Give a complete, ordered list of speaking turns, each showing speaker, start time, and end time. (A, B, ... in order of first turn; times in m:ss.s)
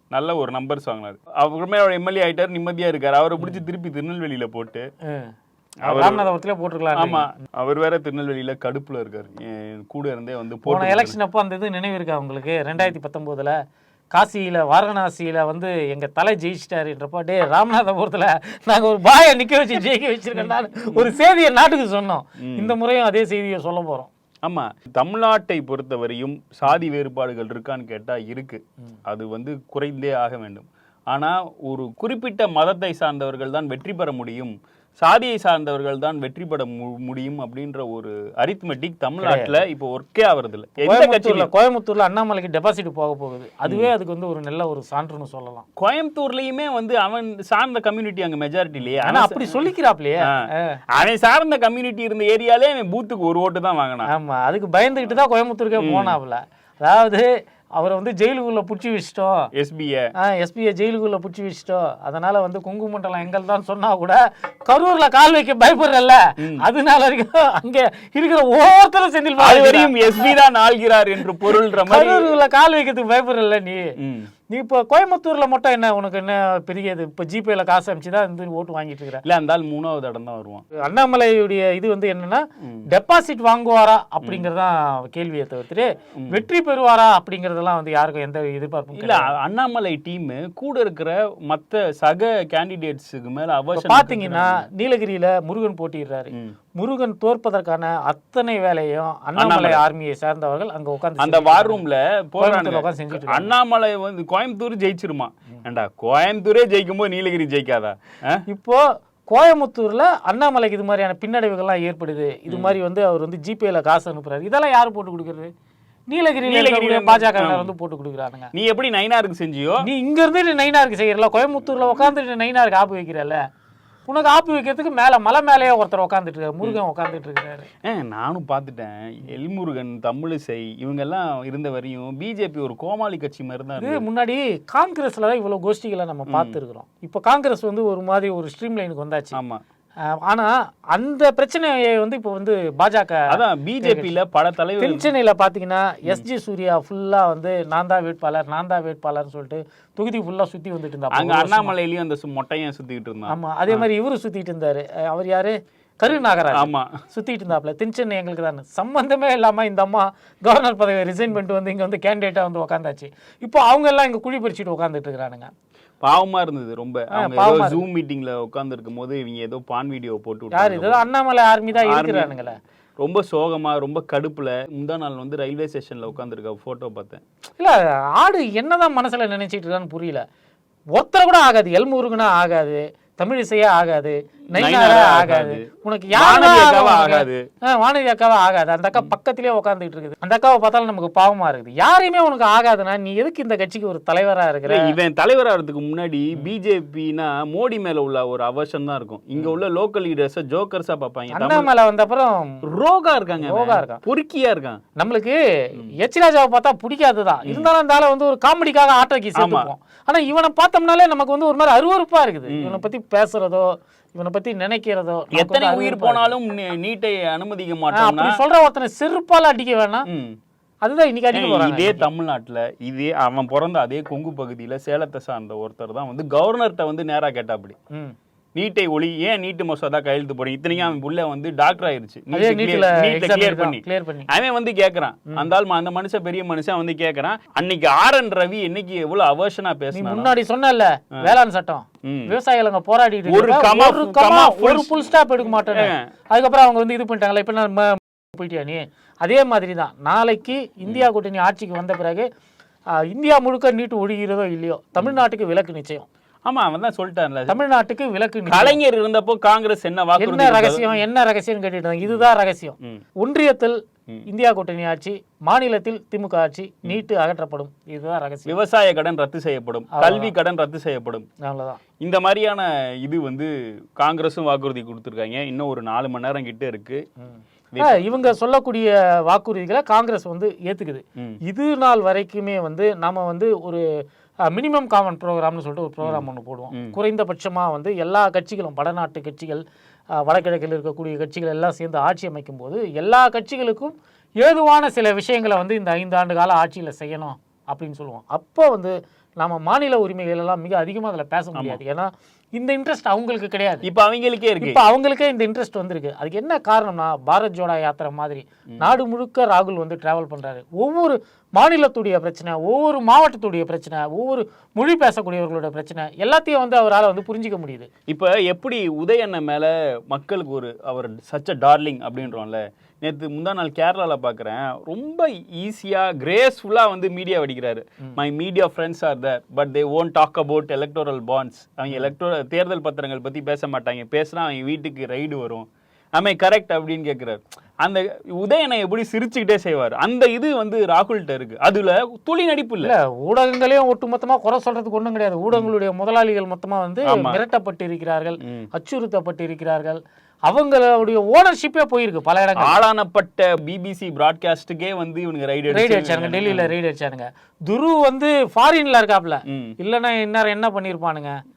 0:00.1-0:04.9 A
0:05.8-0:06.3 A
0:05.9-0:07.3 B
0:06.9-0:11.2 A
0:10.6-0:13.6 B
0:14.1-0:24.1 B
0:22.4-0:22.8 A
0:24.4-0:41.5 A
0:39.2-0:39.6 B
0:40.8-0:45.6 B
0:45.8-0:49.6 A
0:49.0-0:50.8 B
0:50.2-0:54.1 A
0:54.1-0:57.3 B
0:55.8-0:56.2 A
0:57.8-0:59.5 B
0:59.6-1:00.1 A
1:00.2-1:10.4 B
1:06.4-1:06.6 A
1:09.4-1:12.3 A
1:11.5-1:13.9 B
1:14.0-1:14.3 A
1:14.5-1:19.2 B
1:19.2-1:20.6 A
1:20.8-1:29.3 B
1:22.6-1:22.9 A
1:28.9-1:34.7 A
1:33.7-1:41.8 B
1:39.4-1:39.8 A
1:41.2-1:48.4 A
1:42.4-1:43.5 B
1:48.5-1:55.5 B
1:52.5-1:52.8 A
1:56.1-1:58.5 B
1:56.4-1:57.7 A
1:58.5-1:59.9 A
1:59.8-2:03.4 B
2:04.1-2:07.7 B
2:07.8-2:14.1 A
2:13.8-2:19.4 B
2:16.3-2:16.6 A
2:19.4-2:19.6 A
2:20.1-2:24.1 B
2:23.3-2:25.1 A
2:24.8-2:31.7 B
2:31.1-2:33.9 A
2:33.3-2:45.5 B
2:36.6-2:37.0 A
2:46.0-2:51.0 A
2:47.2-2:47.8 B
2:50.5-2:52.6 B
2:51.8-2:52.3 A
2:53.0-2:57.2 A
2:57.6-3:00.2 B
3:01.0-3:15.0 B
3:04.6-3:07.4 A
3:14.7-3:21.7 A
3:21.3-3:22.6 B
3:22.7-3:24.8 A
3:23.4-3:24.0 B
3:25.0-3:25.4 B
3:26.0-3:36.3 B
3:29.4-3:29.7 A
3:32.5-3:32.8 A
3:35.3-3:38.4 A
3:38.0-3:40.1 B
3:40.1-3:40.4 A
3:40.8-3:42.1 B
3:41.3-3:47.8 A
3:48.6-4:00.3 A
3:52.3-3:54.3 B
3:59.9-4:12.3 B
4:02.0-4:02.3 A
4:03.3-4:04.9 A
4:05.7-4:06.1 A
4:13.0-4:16.1 B
4:16.5-4:17.6 A
4:17.5-4:18.8 B
4:18.5-4:20.9 A
4:20.2-4:23.8 B
4:24.3-4:28.6 B
4:28.5-4:31.3 A
4:30.0-4:30.3 B
4:31.4-4:31.8 B
4:32.0-4:37.0 A
4:37.2-4:43.8 B
4:37.7-4:38.0 A
4:44.5-4:49.6 B
4:46.0-4:47.0 A
4:50.2-5:03.8 B
5:03.8-5:04.8 A
5:04.6-5:17.9 B
5:18.1-5:42.9 A
5:42.8-5:52.8 B
5:47.1-5:47.4 A
5:52.6-5:56.7 A
5:55.7-6:01.4 B
5:59.5-5:59.7 A